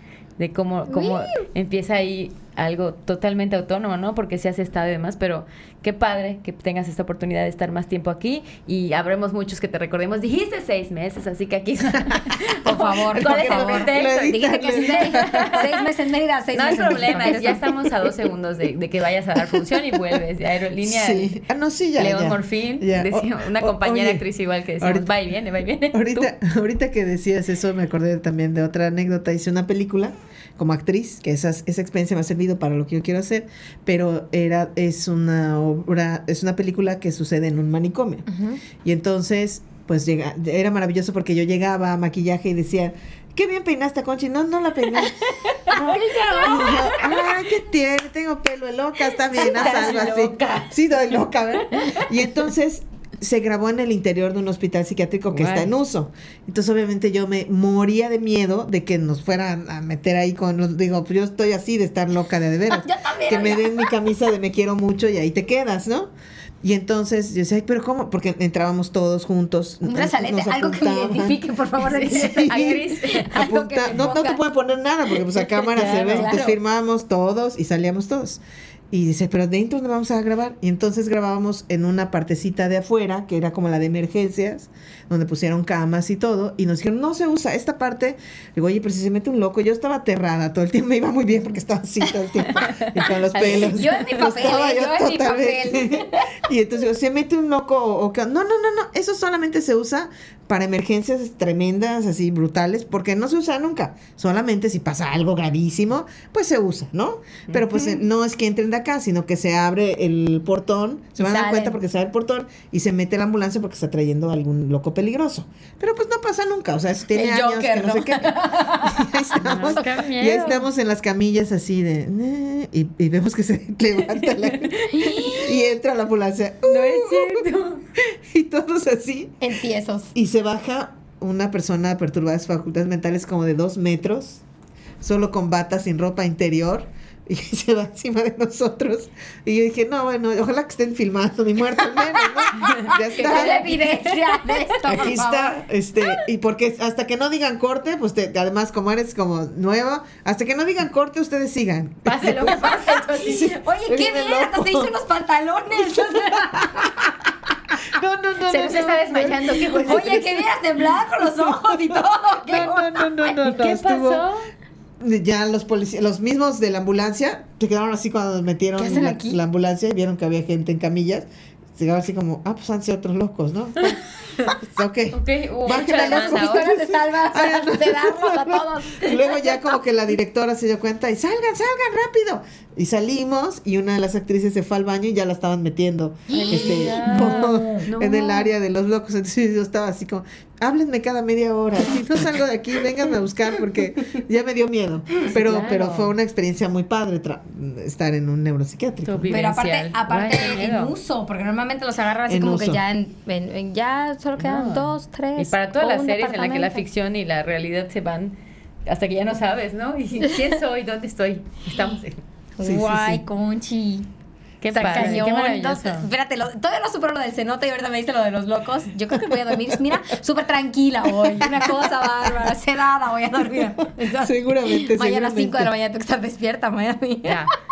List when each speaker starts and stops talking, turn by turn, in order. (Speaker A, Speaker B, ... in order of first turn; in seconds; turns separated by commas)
Speaker A: 0.4-15.8, Speaker B: 0.9-1.4, Speaker B: 12.6-17.7, Speaker C: 13.1-15.7, Speaker A: 16.5-21.4, Speaker C: 16.9-17.8, Speaker C: 19.5-19.8, Speaker C: 20.8-24.2, Speaker A: 22.0-26.3, Speaker C: 24.8-25.1, Speaker C: 25.9-38.3, Speaker B: 38.3-38.6, Speaker C: 38.8-45.3, Speaker B: 45.6-47.2, Speaker A: 45.7-46.9, Speaker C: 46.4-71.4, Speaker A: 49.2-52.1, Speaker A: 55.3-55.7, Speaker B: 62.7-63.9, Speaker B: 69.8-74.4, Speaker A: 71.8-73.3, Speaker C: 72.1-127.5, Speaker B: 75.3-76.6, Speaker A: 75.7-76.3, Speaker A: 92.5-94.1, Speaker B: 93.3-96.3, Speaker A: 107.5-108.0, Speaker B: 111.2-111.8, Speaker B: 117.1-119.0, Speaker A: 119.4-120.7, Speaker A: 124.3-125.4, Speaker B: 124.9-125.5, Speaker A: 126.7-127.8, Speaker C: 128.0-129.4, Speaker B: 129.4-130.1, Speaker C: 130.1-134.4, Speaker C: 135.0-143.8, Speaker A: 142.6-145.1, Speaker B: 143.1-145.6, Speaker C: 144.9-154.9, Speaker A: 152.1-153.5, Speaker B: 152.5-157.1, Speaker C: 156.6-156.9, Speaker C: 157.8-160.3, Speaker A: 158.4-160.4, Speaker B: 159.8-163.1, Speaker C: 161.2-164.2, Speaker A: 163.2-164.5, Speaker C: 165.0-173.9, Speaker B: 168.8-169.4, Speaker C: 174.6-199.3, Speaker A: 175.1-176.8, Speaker B: 175.7-179.8, Speaker B: 186.3-187.9, Speaker A: 186.3-188.5, Speaker A: 195.1-196.1, Speaker A: 199.0-200.9, Speaker B: 199.3-206.8, Speaker C: 202.3-202.8, Speaker A: 204.4-208.3, Speaker A: 208.8-212.2, Speaker B: 212.6-214.1, Speaker C: 212.6-213.2, Speaker A: 214.6-216.1, Speaker B: 214.7-227.5, Speaker C: 219.1-219.7, Speaker C: 221.2-221.9, Speaker C: 224.0-225.7, Speaker A: 227.2-227.5